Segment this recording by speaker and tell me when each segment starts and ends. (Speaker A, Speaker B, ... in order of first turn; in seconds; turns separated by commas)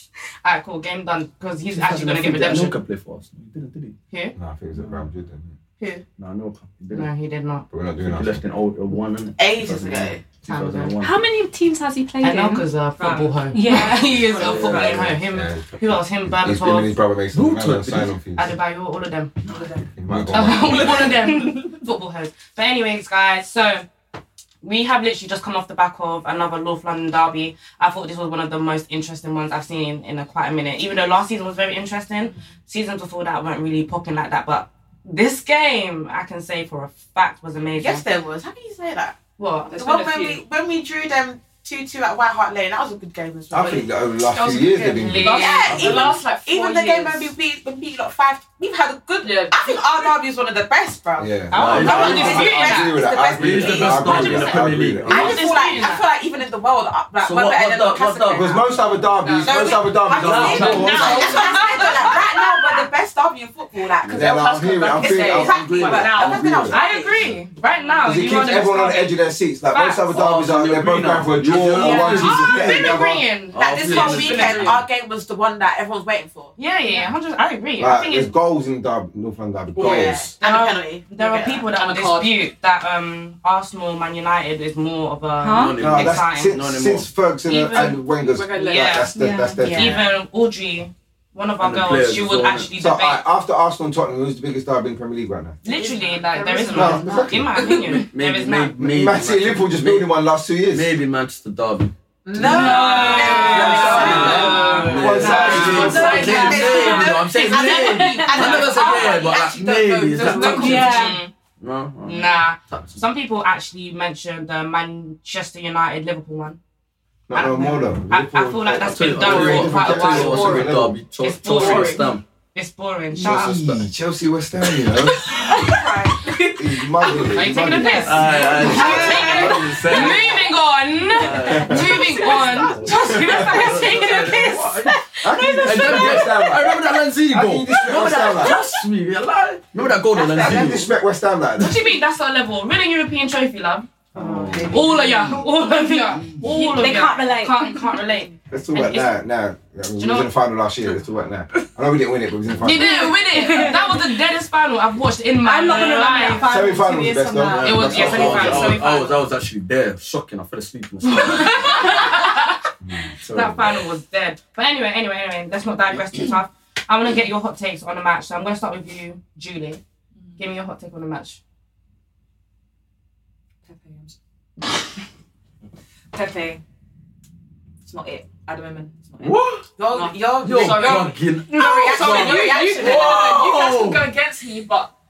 Speaker A: 0.4-2.8, Speaker B: 1.7-4.0, Speaker C: 4.3-5.6, Speaker A: 5.8-6.0, Speaker B: 6.2-7.1, Speaker A: 6.9-7.7, Speaker C: 7.7-8.4, Speaker B: 8.0-11.3, Speaker D: 9.4-10.2, Speaker A: 10.4-10.9, Speaker E: 11.0-14.7, Speaker A: 12.2-16.9, Speaker B: 14.3-15.2, Speaker C: 14.9-18.6, Speaker B: 17.3-18.1, Speaker A: 18.4-19.4, Speaker B: 19.4-21.2, Speaker F: 19.5-19.8, Speaker C: 20.0-21.2, Speaker A: 20.3-23.9, Speaker A: 24.6-38.0, Speaker D: 37.8-39.2, Speaker A: 39.4-39.7, Speaker F: 39.7-40.4, Speaker D: 39.7-43.9, Speaker C: 43.5-45.5, Speaker A: 44.3-45.7, Speaker F: 44.6-47.4, Speaker D: 45.3-58.6, Speaker B: 45.7-46.1, Speaker F: 49.2-50.1, Speaker C: 51.2-55.4, Speaker A: 51.5-53.0, Speaker B: 51.5-52.7, Speaker B: 53.3-55.5, Speaker A: 53.8-54.1, Speaker A: 55.1-56.0, Speaker B: 57.2-59.1, Speaker C: 58.3-61.4, Speaker F: 59.2-59.7, Speaker D: 59.4-67.3, Speaker B: 59.7-61.2, Speaker F: 60.5-62.8, Speaker A: 60.9-61.9, Speaker F: 64.0-66.7, Speaker C: 64.2-66.8, Speaker A: 66.7-69.2, Speaker C: 68.0-73.3, Speaker A: 69.7-70.1, Speaker B: 70.1-73.0, Speaker A: 71.8-73.6, Speaker B: 73.5-74.8, Speaker D: 73.5-76.6, Speaker F: 73.8-74.9, Speaker A: 76.6-78.3, Speaker C: 77.8-80.3, Speaker D: 79.8-81.7, Speaker B: 79.8-80.1, Speaker A: 80.4-86.5, Speaker F: 81.7-82.5, Speaker E: 85.4-85.8, Speaker B: 85.5-87.1, Speaker C: 85.8-90.0, Speaker A: 87.5-93.3, Speaker F: 87.8-89.1, Speaker E: 89.1-89.8, Speaker D: 89.6-90.1, Speaker B: 91.6-92.7, Speaker C: 92.8-95.6, Speaker F: 95.6-97.8, Speaker A: 95.7-98.7, Speaker C: 96.7-97.6, Speaker B: 97.6-100.1, Speaker C: 98.8-100.9, Speaker B: 100.7-111.1, Speaker D: 102.2-111.0, Speaker A: 102.4-107.1, Speaker F: 102.6-107.1, Speaker C: 103.4-106.3, Speaker E: 105.4-106.7, Speaker E: 107.8-108.4, Speaker A: 110.2-111.3, Speaker F: 110.2-111.1, Speaker E: 110.3-111.2, Speaker B: 111.6-113.0, Speaker A: 112.0-116.6, Speaker C: 117.3-121.0, Speaker A: 117.3-120.7, Speaker B: 118.7-122.2, Speaker A: 121.2-123.6, Speaker F: 121.5-122.1, Speaker C: 123.2-125.3, Speaker F: 125.4-125.7, Speaker D: 125.5-126.3, Speaker C: 126.5-129.6, Speaker A: 127.3-134.5, Speaker B: 127.9-130.5, Speaker D: 128.5-129.5, Speaker F: 128.5-129.4, Speaker B: 131.1-135.0, Speaker C: 131.5-131.9, Speaker D: 131.8-134.6, Speaker C: 132.9-134.1, Speaker C: 135.2-138.6, Speaker B: 135.6-140.9, Speaker C: 140.2-141.8, Speaker A: 141.6-143.9, Speaker C: 144.2-144.8, Speaker B: 144.2-145.4, Speaker A: 144.4-149.2, Speaker E: 145.6-148.0, Speaker F: 146.8-147.4, Speaker C: 148.5-153.2, Speaker A: 150.0-150.3, Speaker A: 152.6-156.7, Speaker F: 152.7-153.8, Speaker E: 152.8-154.1, Speaker E: 155.4-157.1, Speaker F: 155.5-157.7, Speaker C: 156.5-158.8, Speaker B: 157.5-162.0, Speaker A: 157.6-159.2, Speaker A: 161.1-162.4, Speaker C: 162.8-163.1, Speaker B: 163.1-163.8, Speaker A: 163.3-169.8, Speaker F: 170.2-170.5, Speaker A: 170.4-171.4, Speaker F: 173.7-174.2, Speaker F: 176.1-176.6, Speaker F: 177.8-184.9, Speaker B: 179.2-179.7, Speaker D: 179.8-183.5, Speaker B: 180.4-184.1